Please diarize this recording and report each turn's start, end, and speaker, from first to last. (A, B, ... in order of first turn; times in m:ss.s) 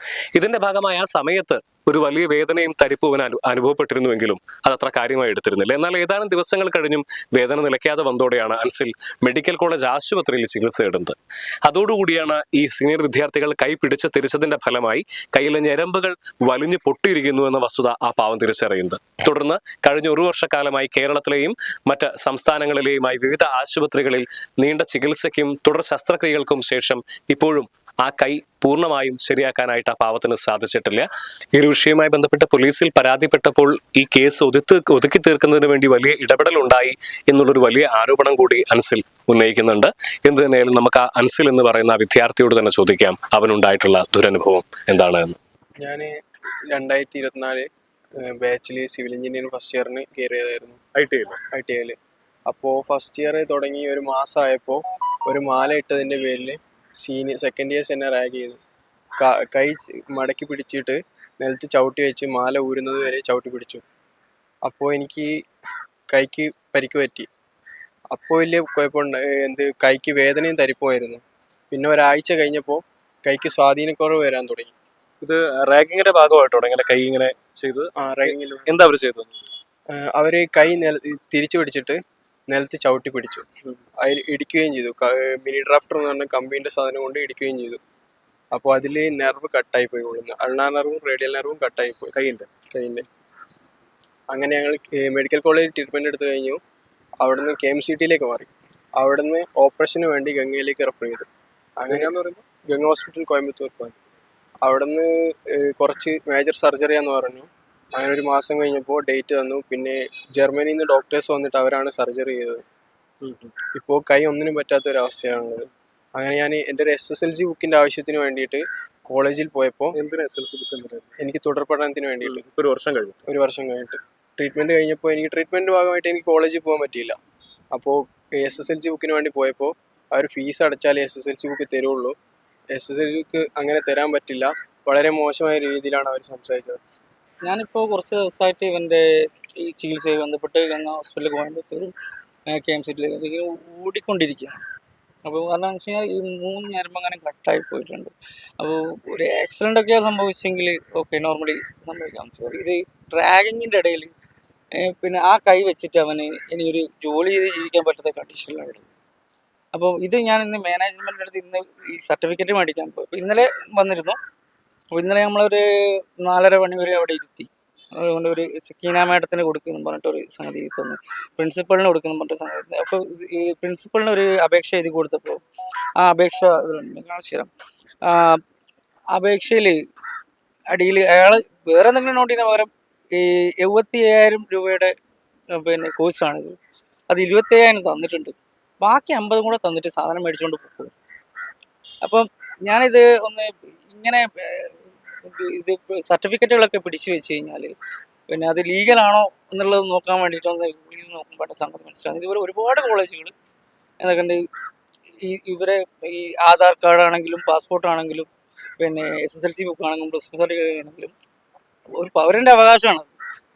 0:00.4-0:45.4 A
0:45.8-0:46.1 B
0:46.7-0:47.6 B
0:48.3-0:50.8 B
0:51.0-0:51.4 A
0:51.5-0:52.0 B
0:52.5-0:58.6 B
0:59.2-1:03.8 B
1:04.6-1:05.3 B
1:06.1-1:07.3 B
1:08.1-1:11.2 B
1:11.7-1:14.7 B
1:15.2-1:19.5 A
1:18.0-1:18.7 B
1:19.9-1:22.0 B
1:22.5-1:23.5 B
1:24.0-1:27.8 B
1:28.5-1:32.1 B
1:32.1-1:32.5 A
1:32.7-1:33.0 B
1:34.3-1:36.6 B
1:37.2-1:41.3 B
1:41.8-1:42.1 B
1:41.9-1:42.4 A
1:42.7-1:44.0 B
1:44.6-1:52.6 B
1:53.2-1:53.5 A
1:53.7-1:55.6 B
1:56.2-1:59.9 B
2:00.0-2:01.2 A
2:01.2-2:02.4 B
2:02.2-2:03.2 A
2:03.3-2:07.2 B
2:07.7-2:12.1 B
2:12.7-2:16.8 B
2:17.4-2:19.0 C
2:19.6-2:21.9 C
2:22.5-2:24.6 C
2:25.2-2:34.1 C
2:34.8-2:38.9 C
2:39.7-2:44.2 C
2:44.9-2:55.4 C
2:56.0-2:57.5 C
2:58.0-2:58.4 C
2:59.1-2:59.8 C
3:00.7-3:04.9 C
3:05.6-3:06.6 C
3:07.1-3:10.9 C
3:12.0-3:17.7 C
3:18.3-3:23.3 C
3:24.0-3:24.4 C
3:25.2-3:28.3 C
3:28.8-3:31.1 C
3:32.0-3:33.1 C